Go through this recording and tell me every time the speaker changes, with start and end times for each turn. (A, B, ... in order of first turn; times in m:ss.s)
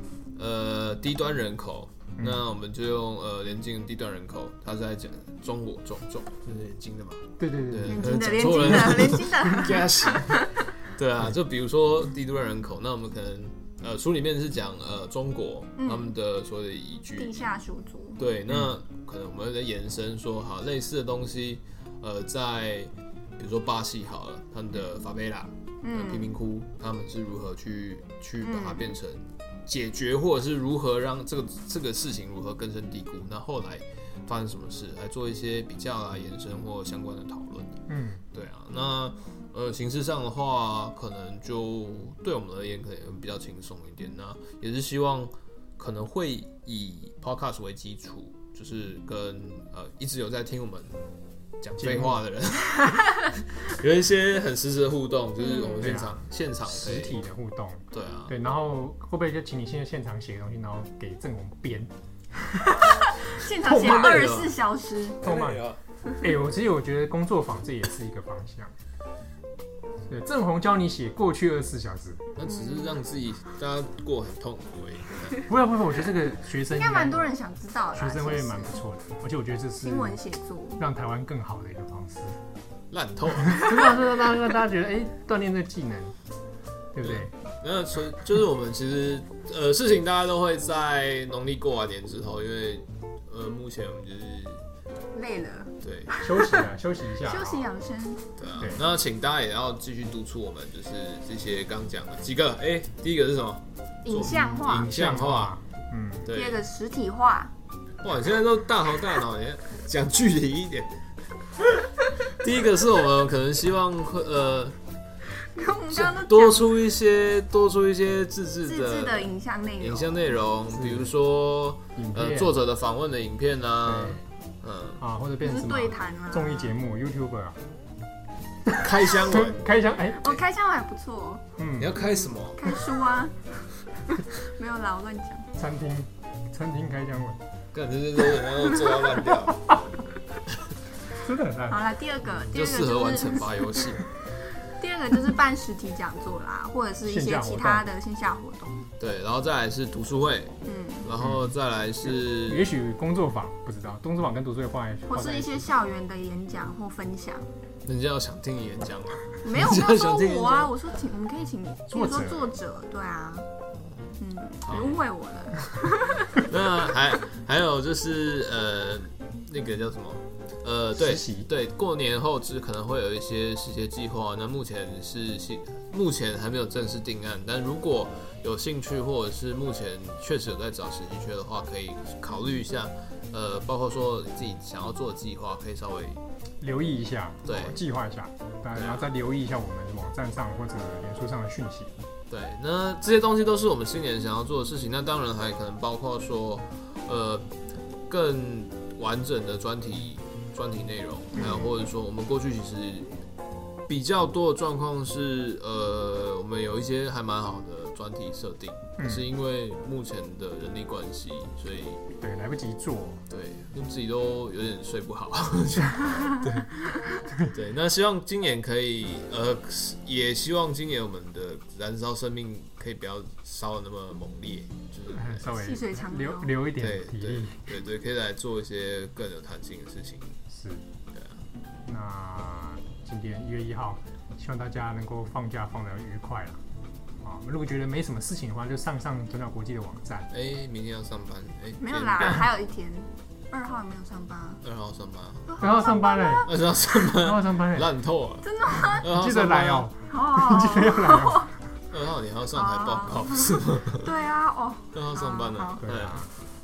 0:00.4-0:10.4 A
0:07.4-0:08.1 B
0:07.9-0:10.6 C
0:10.9-0:17.5 A
0:15.8-0:16.1 C
0:17.2-0:18.2 C
0:18.2-0:37.7 A
0:25.8-0:26.3 C
0:28.4-0:28.9 C
0:37.9-0:38.2 B
0:38.3-0:51.0 A
0:51.6-0:57.2 A
0:51.8-0:52.2 B
0:55.4-0:55.9 C
0:55.8-1:01.9 B
0:57.9-0:58.3 A
1:02.5-1:02.8 B
1:02.8-1:05.2 C
1:03.6-1:04.4 B
1:03.7-1:04.6 A
1:05.2-1:05.7 B
1:05.2-1:05.8 A
1:06.2-1:08.7 B
1:10.1-1:12.3 B
1:12.4-1:15.4 A
1:12.4-1:13.0 C
1:15.5-1:17.3 B
1:16.7-1:18.8 C
1:17.9-1:20.2 B
1:19.8-1:20.8 C
1:20.8-1:22.4 B
1:22.9-1:23.7 A
1:23.4-1:26.1 B
1:26.9-1:27.3 B
1:27.0-1:34.6 A
1:35.1-1:36.7 C
1:35.8-1:36.1 A
1:36.2-1:37.7 B
1:37.2-1:38.3 C
1:38.4-1:45.5 A
1:44.0-1:44.9 C
1:44.1-1:46.3 B
1:46.2-1:46.6 A
1:46.3-1:47.5 C
1:48.0-1:50.9 A
1:52.2-1:54.8 A
1:55.4-1:56.7 C
1:55.9-1:59.3 A
1:58.6-2:00.3 C
1:59.8-2:05.0 A
2:00.7-2:01.1 B
2:01.9-2:02.6 B
2:03.8-2:04.2 B
2:05.0-2:07.6 B
2:05.4-2:06.8 C
2:08.7-2:10.4 B
2:08.8-2:09.6 A
2:10.1-2:11.4 C
2:11.6-2:11.9 B
2:11.8-2:12.8 A
2:12.6-2:15.5 C
2:15.6-2:17.4 B
2:17.7-2:19.6 A
2:21.1-2:21.8 B
2:21.7-2:23.5 C
2:22.5-2:24.0 A
2:24.6-2:28.8 C
2:27.0-2:27.8 B
2:29.0-2:32.6 A
2:30.6-2:31.1 C
2:31.2-2:35.6 B
2:35.0-2:37.5 C
2:37.8-2:40.7 A
2:39.4-2:43.5 C
2:41.9-2:42.5 B
2:43.7-2:45.0 A
2:44.2-2:46.4 C
2:46.4-3:06.2 A
2:50.9-2:51.5 B
3:06.6-3:11.9 B
3:07.4-3:07.8 A
3:08.7-3:09.1 A
3:12.3-3:17.5 A
3:18.1-3:23.1 A
3:21.3-3:21.7 C
3:23.9-3:32.0 A
3:29.0-3:29.2 B
3:32.1-3:33.2 B
3:33.3-3:36.7 A
3:37.2-3:37.5 B
3:37.5-3:45.6 A
3:45.1-3:47.7 B
3:45.5-3:46.5 C
3:46.8-3:50.4 A
3:50.5-3:50.8 B
3:51.1-3:51.4 A
3:51.8-3:56.6 B
3:57.2-4:00.3 B
4:00.3-4:02.4 A
4:01.8-4:04.6 C
4:04.6-4:05.5 A
4:05.5-4:06.5 C
4:05.6-4:06.5 B
4:06.4-4:09.9 A
4:07.1-4:07.9 B
4:08.4-4:09.1 C
4:08.9-4:11.5 B
4:10.1-4:11.5 C
4:11.9-4:14.1 A
4:12.5-4:15.8 C
4:14.9-4:16.3 A
4:15.8-4:16.3 B